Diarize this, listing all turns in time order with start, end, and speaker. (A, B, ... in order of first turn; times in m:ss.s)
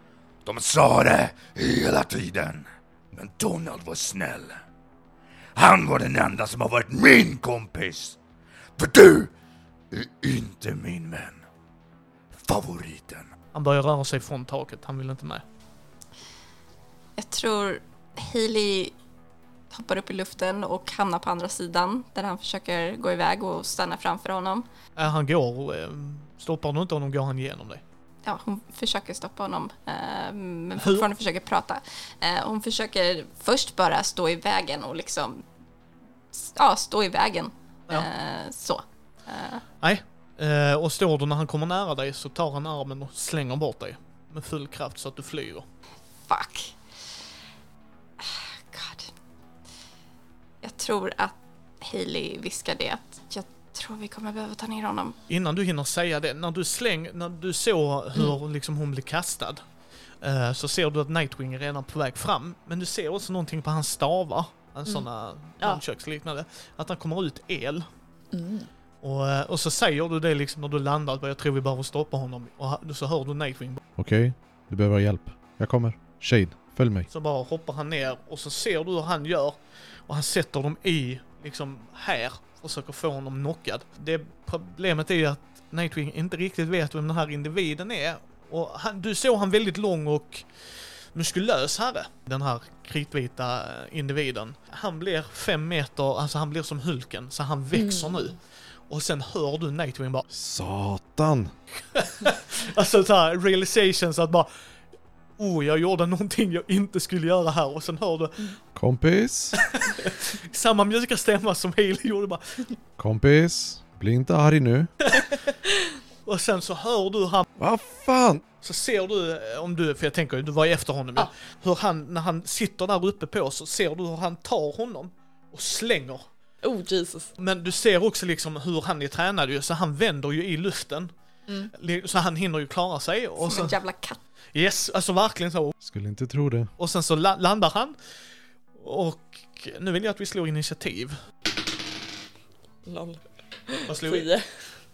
0:00.4-0:04.6 A
0:05.5-0:08.2 A
0:08.8-0:09.3 A
0:09.9-0:11.4 A
0:12.3-0:13.3 A
0:13.5-0:15.4 B
0:17.2-0:18.9 C
0:19.7-0:24.7 C
0:25.0-0:27.8 B
0:28.2-0:35.4 C
0:30.8-0:31.0 B
0:36.3-0:39.6 C
0:39.8-0:45.6 B
0:46.3-0:46.8 C
0:48.2-0:49.1 C
0:50.6-0:55.2 C
0:55.3-0:59.6 B
1:00.2-1:07.9 B
1:08.3-1:08.7 D
1:09.0-1:13.8 B
1:14.0-1:17.1 E
1:17.1-1:19.6 B
1:20.1-1:30.4 B
1:31.1-1:38.4 B
1:37.7-1:38.3 D
1:38.9-1:40.2 B
1:40.3-1:41.5 E
1:41.9-1:44.5 B
1:45.4-1:48.5 B
1:48.7-1:49.6 E
1:49.6-1:52.6 B
1:53.0-1:54.9 E
1:55.1-1:55.5 B
1:56.2-1:57.4 B
1:57.6-1:58.4 E
1:58.6-2:06.2 B
2:06.6-2:07.3 D
2:07.4-2:11.1 B
2:11.7-2:13.7 B
2:13.4-2:14.2 C
2:14.5-2:15.7 B
2:15.8-2:16.7 E
2:16.8-2:18.0 B
2:18.7-2:21.2 B
2:22.8-2:24.4 D
2:23.9-2:24.3 B